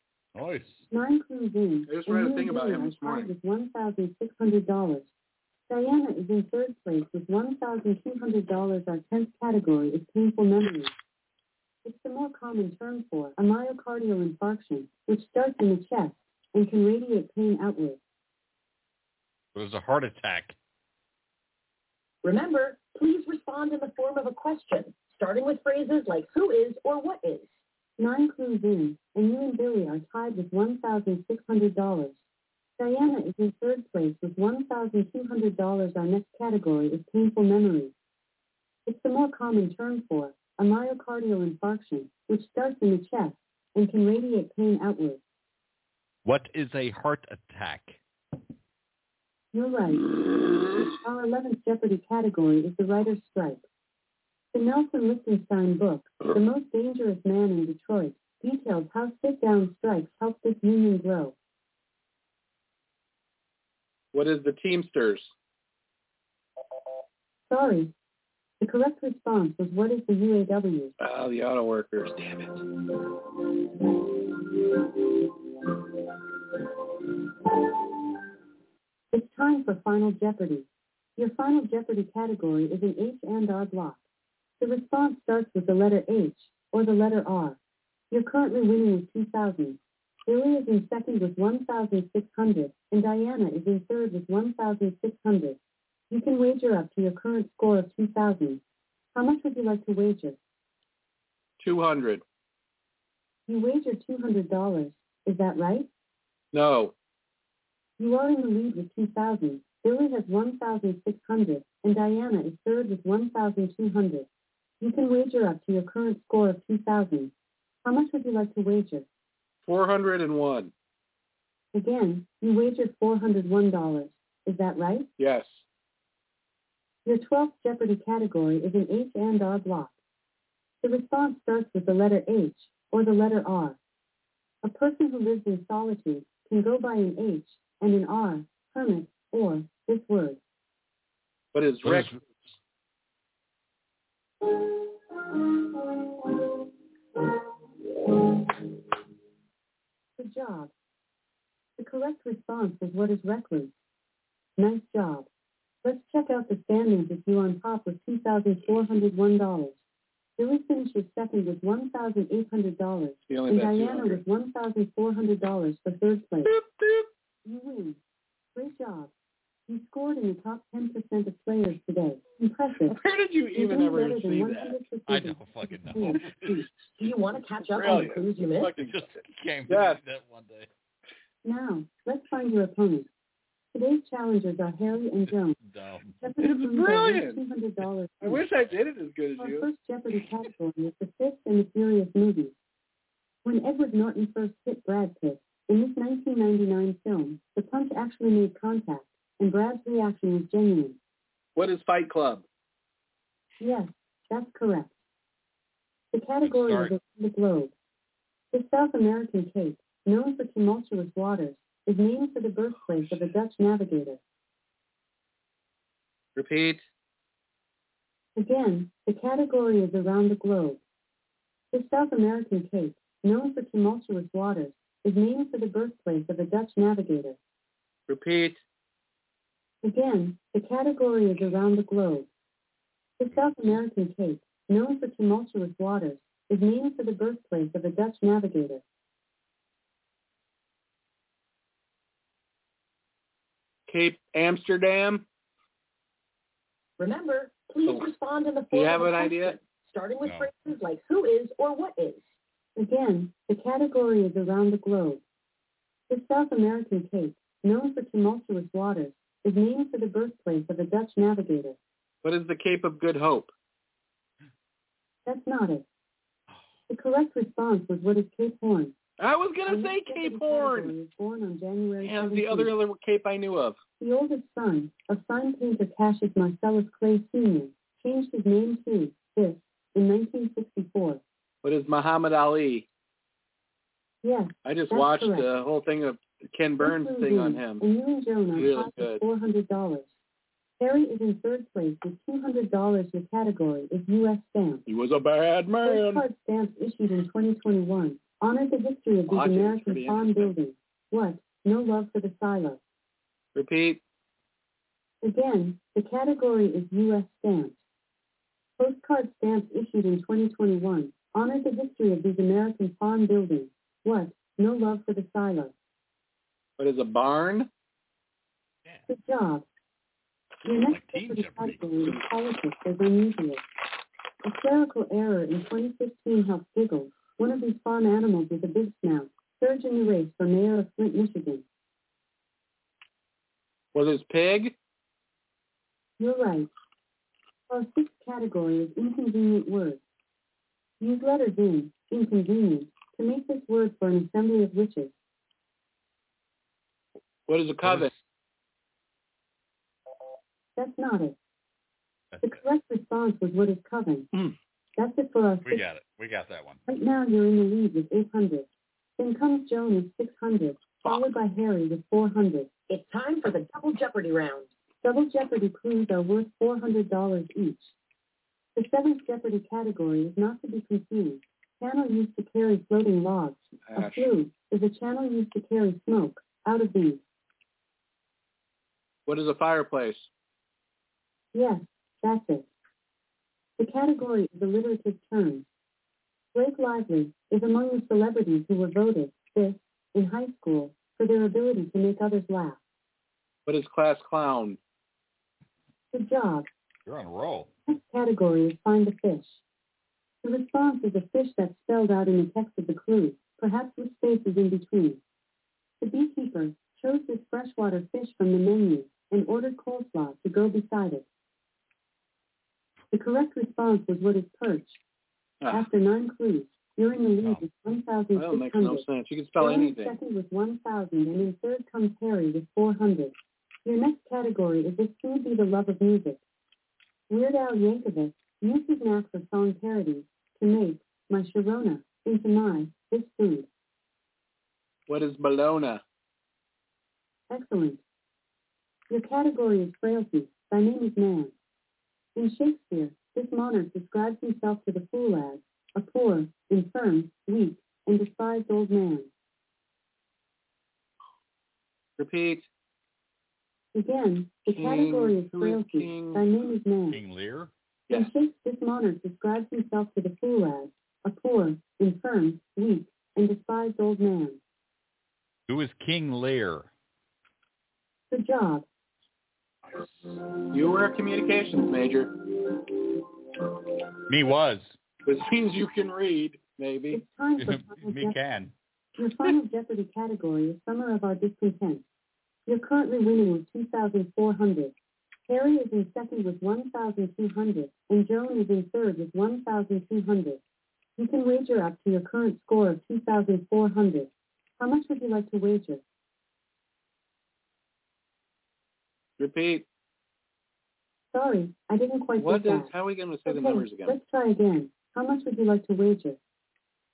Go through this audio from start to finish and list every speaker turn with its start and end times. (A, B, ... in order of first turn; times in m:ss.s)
0:00.4-0:00.9 A
0:00.9-0:05.1 B
0:01.9-0:03.3 C
0:05.7-0:10.9 B
0:11.8-0:18.0 B
0:19.6-0:20.6 A
0:22.2-0:27.6 D
0:28.0-0:32.2 B
0:32.8-0:37.9 B
0:38.9-0:45.2 B
0:46.2-0:48.0 A
0:49.5-0:50.1 B
0:51.0-0:53.6 B
0:54.5-1:01.4 B
1:04.1-1:05.3 C
1:07.5-1:07.9 B
1:08.6-1:10.9 B
1:11.0-1:12.6 C
1:19.1-1:24.0 B
1:24.6-1:27.6 B
1:28.1-1:35.6 B
1:36.1-1:38.6 B
1:39.1-1:40.4 B
1:41.6-1:42.2 C
1:43.5-1:45.9 B
1:46.5-1:46.9 C
1:48.0-1:54.3 B
1:54.8-1:57.3 B
1:57.8-1:59.1 B
1:59.6-2:00.7 C
2:01.7-2:05.1 B
2:05.2-2:05.6 C
2:07.0-2:09.9 B
2:10.8-2:13.8 B
2:14.6-2:20.4 B
2:21.5-2:22.4 C
2:21.8-2:22.2 A
2:30.2-2:30.7 B
2:31.8-2:33.7 B
2:34.6-2:35.3 B
2:35.8-2:39.8 B
2:40.4-2:46.5 B
2:43.3-2:44.2 C
2:46.4-2:47.1 C
2:47.4-2:48.0 B
2:48.6-2:49.1 B
2:49.7-2:53.0 B
2:52.8-2:54.8 C
2:53.5-2:56.7 B
2:55.1-2:56.5 A
2:57.0-2:58.8 D
2:57.7-2:59.0 C
2:58.8-3:00.7 A
2:59.7-3:00.0 C
3:01.4-3:03.1 B
3:03.7-3:05.6 B
3:05.3-3:06.2 A
3:06.2-3:08.4 B
3:06.4-3:07.4 C
3:08.2-3:09.7 C
3:09.4-3:12.5 B
3:13.4-3:21.0 B
3:21.6-3:22.4 C
3:23.6-3:25.0 B
3:26.1-3:27.7 B
3:26.4-3:27.0 A
3:28.5-3:34.2 B
3:33.0-3:33.3 C
3:36.4-3:36.8 C
3:38.4-3:40.8 B
3:41.7-3:47.4 B
3:48.1-3:48.6 C
3:49.8-3:52.3 B
3:53.2-3:58.8 B
4:03.9-4:05.2 C
4:07.0-4:12.4 D
4:08.7-4:09.6 C
4:10.2-4:10.6 A
4:12.8-4:15.2 B
4:16.1-4:21.8 B
4:22.2-4:23.5 C
4:25.3-4:25.8 B
4:26.9-4:29.0 B
4:29.2-4:31.0 C
4:29.7-4:32.7 B
4:32.0-4:33.8 C
4:34.0-4:41.2 B
4:41.6-4:42.9 C
4:44.2-4:45.5 B
4:44.6-4:47.8 C
4:46.8-4:50.1 B
4:48.5-4:49.2 C
4:50.8-4:54.8 B
4:54.9-4:56.2 C
4:55.8-5:02.8 B
4:59.3-5:00.5 C
5:03.6-5:04.0 C
5:05.2-5:07.8 B
5:08.8-5:15.7 B
5:16.8-5:17.7 C
5:19.1-5:19.6 B
5:20.6-5:23.6 B
5:20.9-5:21.9 A
5:24.4-5:31.6 B
5:33.9-5:34.7 C
5:36.2-5:36.7 B
5:37.7-5:40.0 B
5:41.0-5:45.2 B
5:47.5-5:48.1 C
5:47.8-5:48.2 A
5:50.8-5:51.4 B
5:52.3-5:52.6 A
5:52.4-5:54.3 B
5:55.0-5:55.8 B
5:55.6-5:56.8 A
5:56.9-5:58.7 B
5:59.2-6:02.7 B
6:02.9-6:04.7 D
6:05.0-6:07.9 B
6:08.8-6:17.2 B
6:13.8-6:14.3 C
6:19.3-6:20.3 C
6:21.5-6:22.7 B
6:23.8-6:25.7 B
6:26.5-6:32.8 B
6:33.7-6:34.8 C
6:36.1-6:36.7 B
6:37.1-6:37.7 A
6:37.9-6:39.6 B
6:40.4-6:45.2 B
6:46.0-6:51.2 B
6:53.1-6:55.0 B
6:55.6-6:55.9 C
6:55.7-6:59.1 B
6:57.4-6:57.7 A
6:58.4-7:00.2 C
6:59.6-7:03.3 B
7:03.8-7:06.4 B
7:07.3-7:13.7 B
7:15.1-7:16.0 C
7:17.5-7:18.0 B
7:19.1-7:21.5 B
7:22.4-7:29.3 B
7:32.2-7:32.7 C
7:33.9-7:37.2 B
7:34.7-7:36.4 C
7:37.1-7:37.7 A
7:38.1-7:44.6 B
7:45.7-7:46.9 A
7:48.3-7:48.9 B
7:50.7-7:52.3 C
7:54.3-7:54.9 A
7:55.3-7:57.2 C
7:57.1-7:58.4 B
7:57.6-7:58.7 A
7:59.2-8:02.0 B
8:02.7-8:04.9 B
8:05.5-8:10.6 B
8:11.2-8:16.0 B
8:19.4-8:19.9 C
8:21.3-8:22.9 B
8:22.4-8:24.2 C
8:23.5-8:26.4 B